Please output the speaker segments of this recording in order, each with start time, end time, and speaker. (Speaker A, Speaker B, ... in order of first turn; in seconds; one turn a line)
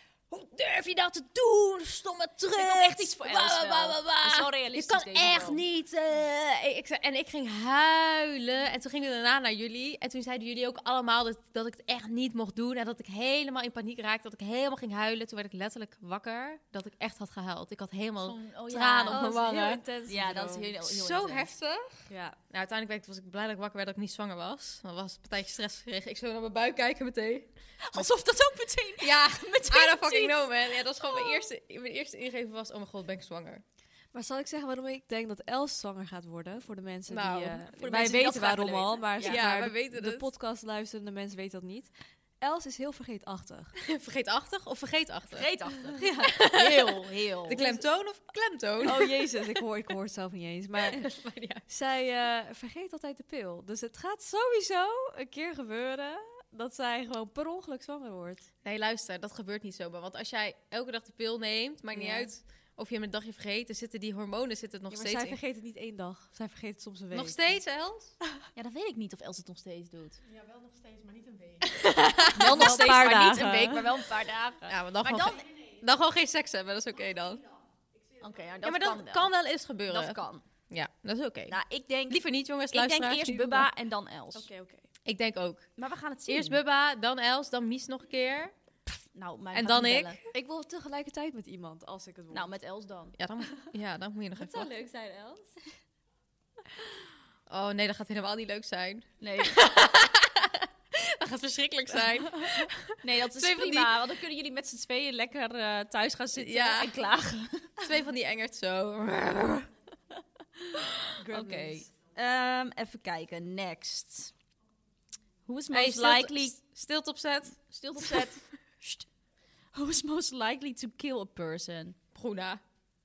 Speaker A: 0.3-19.8
Speaker B: 2.5-5.6
Speaker B: 18.2-19.4
Speaker C: 19.1-20.7
Speaker B: 20.1-21.5
Speaker A: 20.8-28.1
Speaker C: 22.1-22.4
Speaker B: 27.8-31.4
Speaker A: 29.0-33.6
Speaker C: 34.1-43.7
Speaker A: 37.1-38.5
Speaker B: 37.9-39.4
Speaker A: 39.2-40.3
Speaker A: 43.8-49.3
Speaker B: 45.3-47.6
Speaker C: 47.6-47.8
Speaker C: 48.8-58.5
Speaker A: 50.8-51.6
Speaker A: 58.6-65.4
Speaker C: 61.9-62.3
Speaker C: 64.9-67.5
Speaker A: 67.1-68.2
Speaker B: 68.5-70.2
Speaker A: 71.5-73.0
Speaker C: 72.3-73.9
Speaker B: 72.3-75.5
Speaker A: 74.7-77.5
Speaker B: 78.2-79.3
Speaker A: 78.6-83.7
Speaker B: 79.8-80.4
Speaker B: 81.5-84.5
Speaker C: 84.3-84.8
Speaker A: 85.0-85.7
Speaker B: 85.8-86.6
Speaker A: 86.3-88.5
Speaker B: 89.1-90.2
Speaker A: 89.5-90.2
Speaker C: 90.3-92.5
Speaker B: 92.3-93.2
Speaker A: 93.2-94.7
Speaker B: 94.4-95.6
Speaker A: 97.5-104.0
Speaker B: 99.2-99.6
Speaker B: 103.0-107.7
Speaker A: 106.3-106.9
Speaker A: 107.8-109.7
Speaker C: 111.2-111.9
Speaker B: 111.3-114.3
Speaker B: 115.4-116.6
Speaker A: 115.7-118.3
Speaker B: 117.7-119.1
Speaker B: 119.7-122.0
Speaker A: 122.1-122.6